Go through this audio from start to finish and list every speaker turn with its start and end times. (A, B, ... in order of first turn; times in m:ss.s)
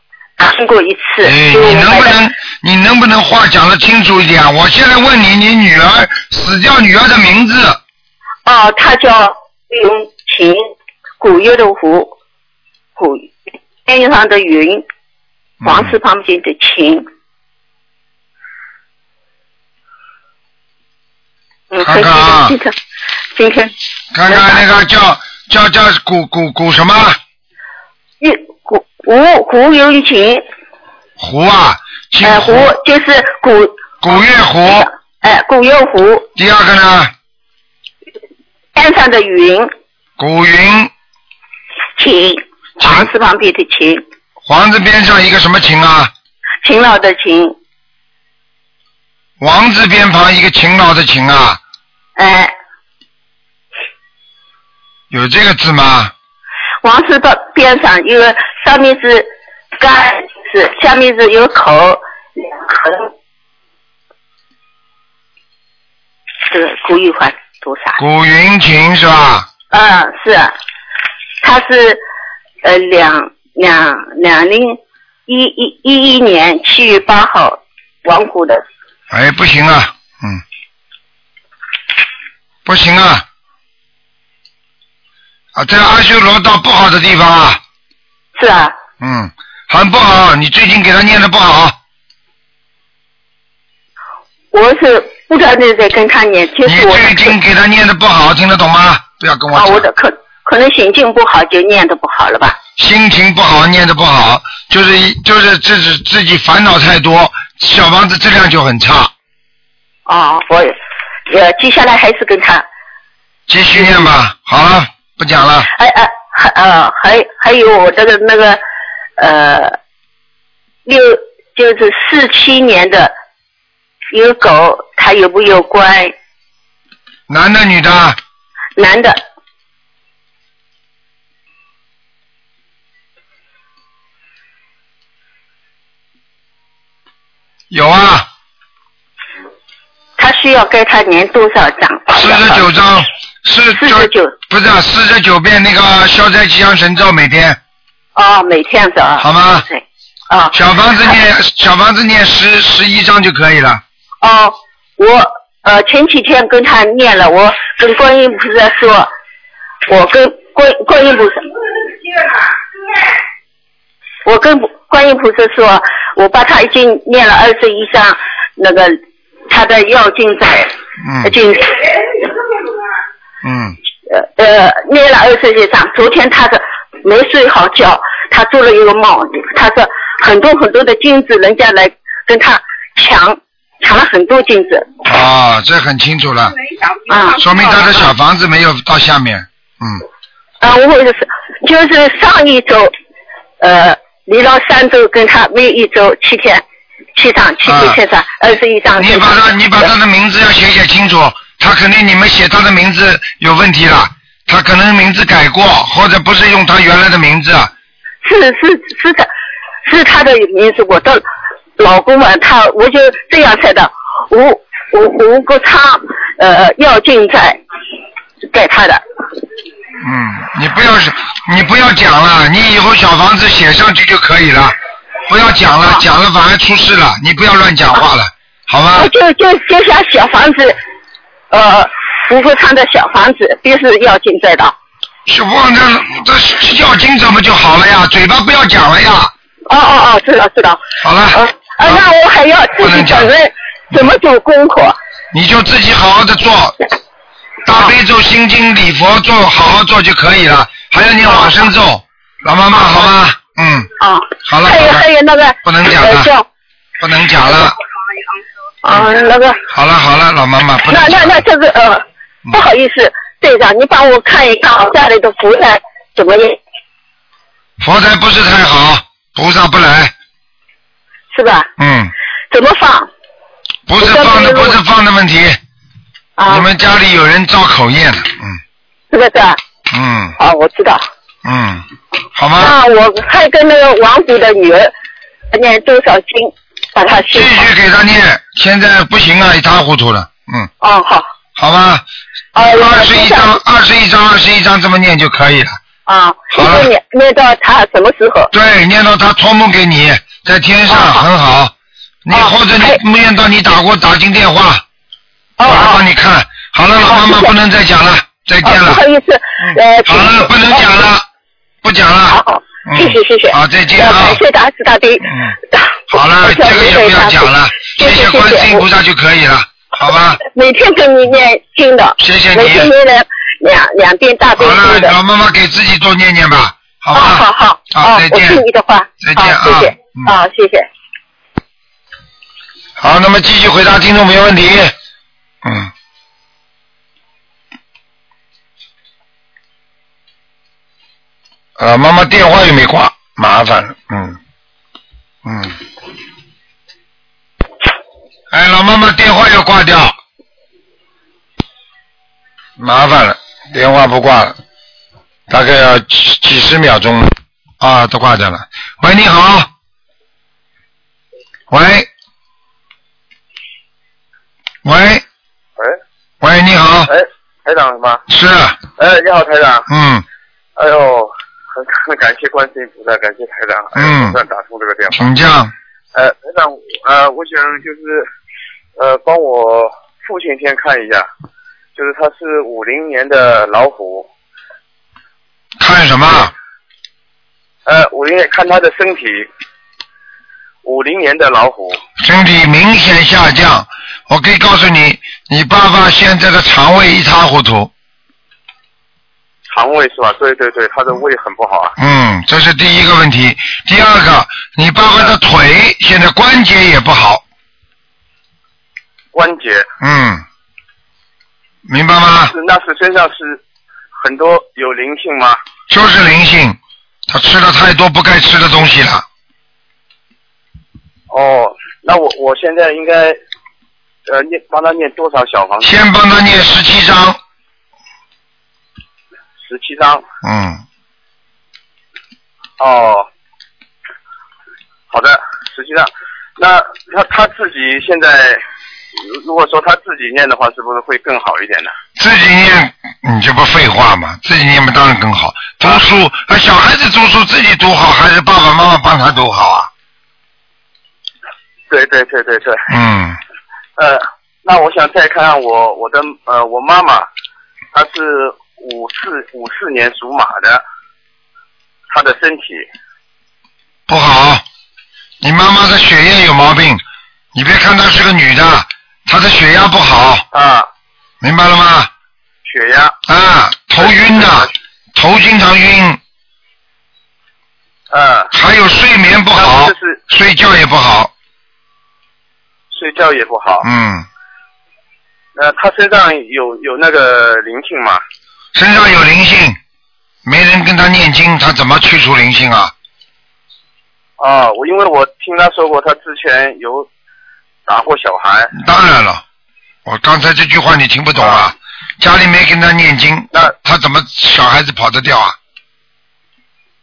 0:00.4-0:02.2 A
0:01.2-0:07.8 B
0:08.4-0:10.7 A
0:11.2-0:12.1 A
0:13.0-0:13.3 A
0:13.8-0:14.8 A
0:15.6-0:16.0 B
0:15.6-0:17.0 A
0:21.7-0:22.7 A
0:21.8-0:22.6 B
0:23.3-0:23.7 A
0:24.1-0:27.2 B
0:24.3-0:24.7 A
0:28.2-0:30.4 A
0:31.2-0:32.7 B
0:32.2-0:33.9 A
0:34.0-0:34.9 B
0:34.6-0:36.3 A
0:36.4-0:37.1 B
0:38.7-0:39.7 A
0:40.2-0:40.9 B
0:42.0-0:44.0 A
0:42.8-0:43.1 B
0:44.4-0:46.1 B
0:46.6-0:47.6 A
0:49.4-0:51.6 B
0:52.2-0:52.5 A
0:55.1-0:56.1 B
0:56.8-1:03.1 A
1:06.5-1:08.0 A
1:08.0-1:09.5 B
1:09.7-1:10.5 A
1:11.4-1:12.0 A
1:12.6-1:18.6 A
1:19.1-1:20.4 B
1:22.6-1:23.2 B
1:25.5-1:27.6 B
1:28.4-1:28.8 A
1:29.0-1:31.8 B
1:34.5-1:37.3 A
1:36.6-1:39.9 B
1:39.5-1:42.6 A
1:42.8-1:49.1 B
1:50.1-1:50.8 A
1:51.3-1:52.6 A
1:53.5-1:55.7 B
1:55.7-1:58.6 A
1:59.2-1:59.8 A
2:00.8-2:03.1 A
2:04.1-2:06.1 A
2:07.3-2:08.2 B
2:08.8-2:09.2 A
2:17.7-2:18.3 B
2:20.2-2:22.6 A
2:22.2-2:27.6 B
2:23.7-2:24.3 A
2:28.1-2:30.6 A
2:29.2-2:29.7 B
2:30.5-2:33.8 B
2:34.2-2:39.1 A
2:39.9-2:41.5 A
2:44.2-2:52.3 A
2:51.0-2:51.3 B
2:53.4-2:53.8 B
2:54.1-3:04.9 A
3:05.0-3:06.5 B
3:07.1-3:08.0 A
3:07.4-3:10.0 B
3:10.6-3:12.9 A
3:13.6-3:16.6 A
3:17.1-3:19.8 A
3:17.6-3:18.0 B
3:19.0-3:27.7 B
3:28.2-3:29.3 A
3:29.8-3:31.2 A
3:31.8-3:37.6 A
3:38.5-3:39.0 A
3:40.0-3:44.8 B
3:45.3-3:49.1 B
3:48.9-3:50.8 A
3:51.5-3:54.7 A
3:55.3-3:59.3 B
3:59.7-4:05.0 A
4:01.0-4:02.0 B
4:02.8-4:03.3 B
4:05.3-4:06.8 B
4:07.6-4:13.9 B
4:14.0-4:16.4 A
4:14.4-4:15.1 B
4:15.6-4:16.3 B
4:17.0-4:17.8 B
4:18.8-4:19.6 A
4:19.7-4:21.4 B
4:20.8-4:26.6 A
4:27.8-4:30.1 B
4:31.3-4:31.7 A
4:31.8-4:32.1 B
4:32.5-4:33.1 A
4:33.9-4:35.6 B
4:34.0-4:34.8 A
4:36.4-4:36.7 A
4:36.5-4:38.6 B
4:39.1-4:39.6 A
4:39.9-4:40.3 B
4:40.4-4:41.0 A
4:41.4-4:42.8 B
4:42.6-4:44.9 A
4:45.5-4:47.7 A
4:47.3-4:50.7 B
4:50.8-4:51.3 A
4:51.6-4:52.0 B
4:52.5-4:53.6 A
4:52.6-4:55.8 B
4:56.0-4:58.5 A
4:56.5-4:56.9 B
4:58.5-5:01.7 B
5:00.9-5:01.2 A
5:02.2-5:04.8 B
5:02.3-5:03.0 A
5:05.6-5:06.0 A
5:05.6-5:09.0 B
5:07.0-5:07.5 A
5:08.6-5:10.8 A
5:09.6-5:11.2 B
5:11.8-5:14.4 B
5:12.3-5:18.8 A
5:15.2-5:15.5 B
5:16.1-5:20.4 B
5:20.4-5:25.2 A
5:22.2-5:22.9 B
5:24.6-5:28.6 B
5:27.1-5:30.9 A
5:29.2-5:30.3 B
5:33.0-5:34.9 B
5:35.6-5:35.9 B
5:41.8-5:44.4 B
5:45.4-5:45.8 B
5:48.5-5:50.2 B
5:52.8-5:54.6 B
5:55.5-5:59.7 B
6:01.7-6:02.1 B
6:04.8-6:05.2 B
6:06.4-6:07.1 B
6:07.1-6:08.2 C
6:08.3-6:08.8 B
6:09.0-6:09.9 C
6:09.9-6:10.2 B
6:10.8-6:15.3 C
6:14.0-6:14.4 B
6:15.1-6:15.7 B
6:16.1-6:18.2 C
6:19.0-6:21.3 C
6:22.0-6:24.3 C
6:25.8-6:26.5 B
6:27.8-6:29.5 C
6:30.8-6:32.0 C
6:32.2-6:37.9 B
6:39.7-6:42.0 C
6:42.0-6:47.4 B
6:45.0-6:45.3 C
6:49.3-6:49.8 C
6:50.0-6:50.4 B
6:51.9-6:52.5 B
6:52.5-6:53.6 C
6:54.2-6:55.6 C
6:55.9-6:59.2 B
7:01.3-7:03.4 C
7:04.3-7:05.9 C
7:05.8-7:07.4 B
7:09.6-7:10.2 C
7:10.4-7:10.8 B
7:12.8-7:13.3 C
7:15.1-7:18.6 C
7:19.2-7:21.9 C
7:22.2-7:29.9 B
7:31.9-7:32.9 C
7:32.9-7:33.4 B
7:34.0-7:37.3 C
7:37.9-7:40.8 C
7:42.1-7:42.8 C
7:44.1-7:44.6 B
7:45.4-7:47.0 B
7:47.5-7:50.4 B
7:50.5-7:50.9 C
7:51.4-7:52.1 B
7:52.6-7:53.1 C
7:53.3-7:56.2 B
7:54.0-7:54.7 C
7:58.1-7:58.5 C
7:58.5-8:01.3 B
7:59.5-8:00.2 C
8:02.9-8:03.8 C
8:03.8-8:04.2 B
8:05.6-8:08.2 C
8:08.7-8:09.8 B
8:10.4-8:12.9 B
8:14.4-8:17.1 C
8:17.9-8:18.7 C
8:18.7-8:19.4 B
8:20.0-8:25.6 B
8:21.4-8:21.7 C